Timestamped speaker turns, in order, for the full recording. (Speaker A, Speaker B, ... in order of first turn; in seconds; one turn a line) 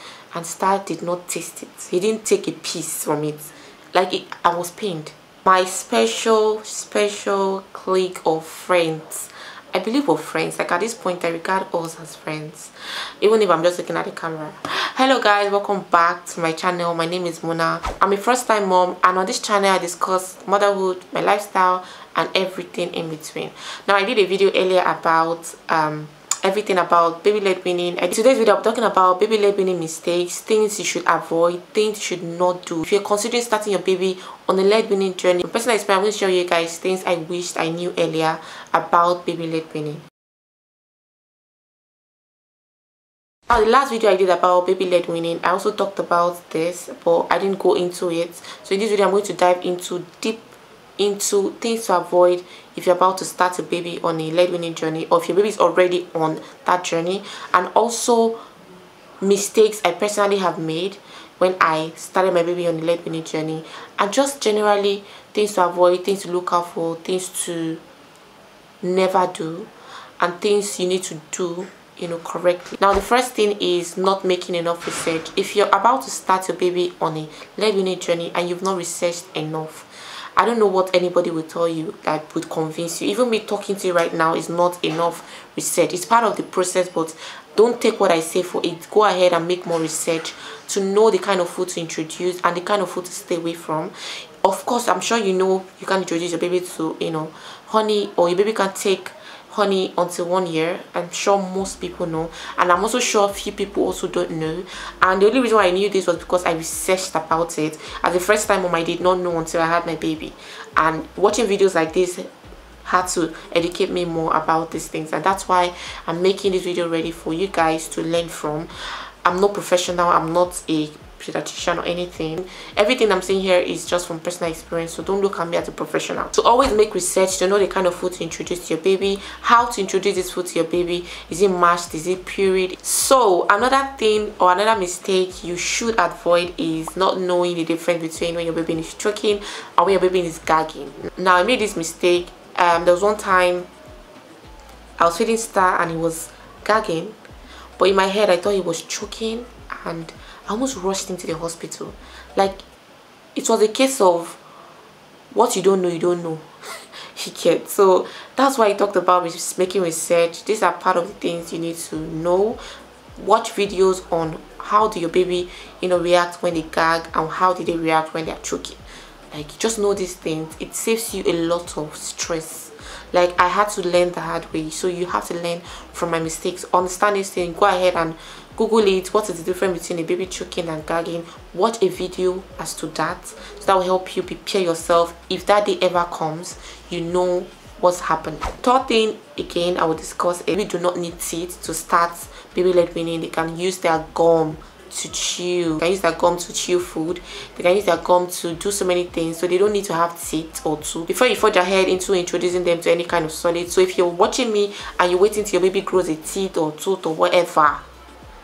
Speaker A: 0.3-40.0
Speaker A: 43.5-58.4
Speaker A: 59.2-67.8
Speaker A: 68.8-69.7
Speaker A: 70.2-112.3
Speaker A: 112.8-118.7
Speaker A: 119.2-143.7
Speaker A: 145.0-147.2
Speaker A: 147.8-152.6
Speaker A: 153.3-154.4
Speaker A: 155.3-156.5
Speaker A: 157.1-162.6
Speaker A: 163.2-168.8
Speaker A: 169.3-207.8